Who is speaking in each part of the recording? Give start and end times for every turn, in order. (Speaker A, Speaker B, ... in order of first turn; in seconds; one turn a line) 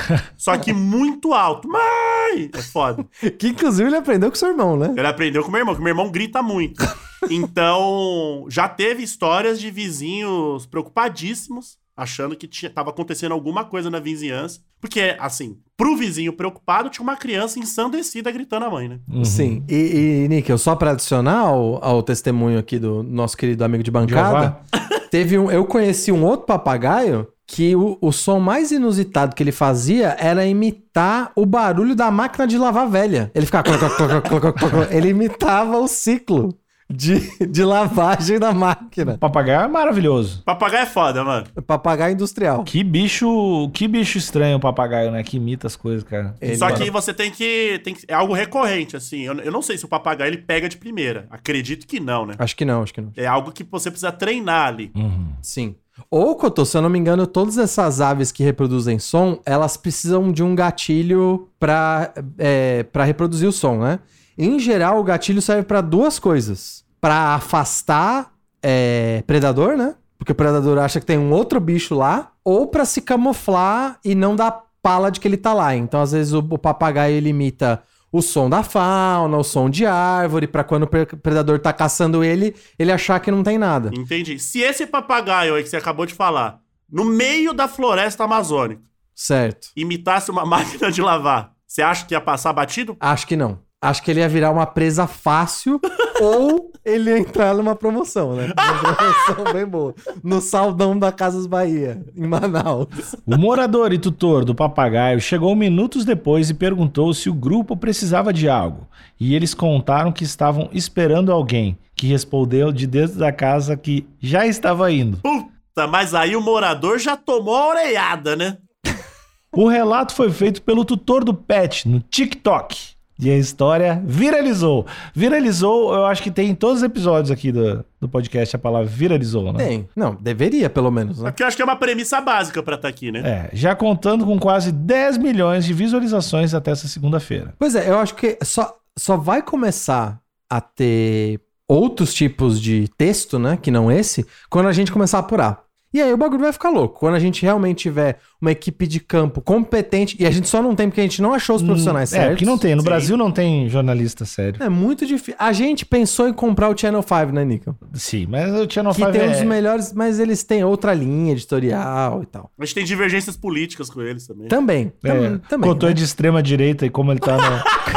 Speaker A: 0.4-3.0
Speaker B: 3.2-5.0
Speaker A: 5.0-19.1
Speaker C: 19.1-19.6
Speaker B: 19.2-24.6
Speaker C: 24.1-24.6
Speaker B: 25.1-39.2
Speaker C: 39.0-40.4
Speaker A: 40.5-41.5
Speaker B: 41.6-42.7
Speaker C: 42.7-46.9
Speaker B: 46.4-46.9
Speaker A: 46.5-52.4
Speaker B: 52.4-53.2
Speaker A: 53.2-54.9
Speaker C: 55.0-55.4
Speaker B: 55.4-84.0
Speaker A: 83.9-88.9
Speaker B: 89.2-89.7
Speaker A: 89.8-93.0
Speaker B: 93.0-103.1
Speaker A: 98.6-99.3
Speaker C: 103.3-115.2
Speaker A: 115.2-118.6
Speaker C: 119.5-129.7
Speaker B: 129.6-131.3
Speaker A: 131.2-133.3
Speaker C: 133.2-137.5
Speaker B: 137.6-152.6
Speaker C: 151.6-154.6
Speaker A: 152.8-153.1
Speaker B: 154.6-157.8
Speaker C: 157.9-159.6
Speaker B: 158.9-162.5
Speaker A: 162.6-164.6
Speaker B: 164.5-166.0
Speaker C: 165.0-167.7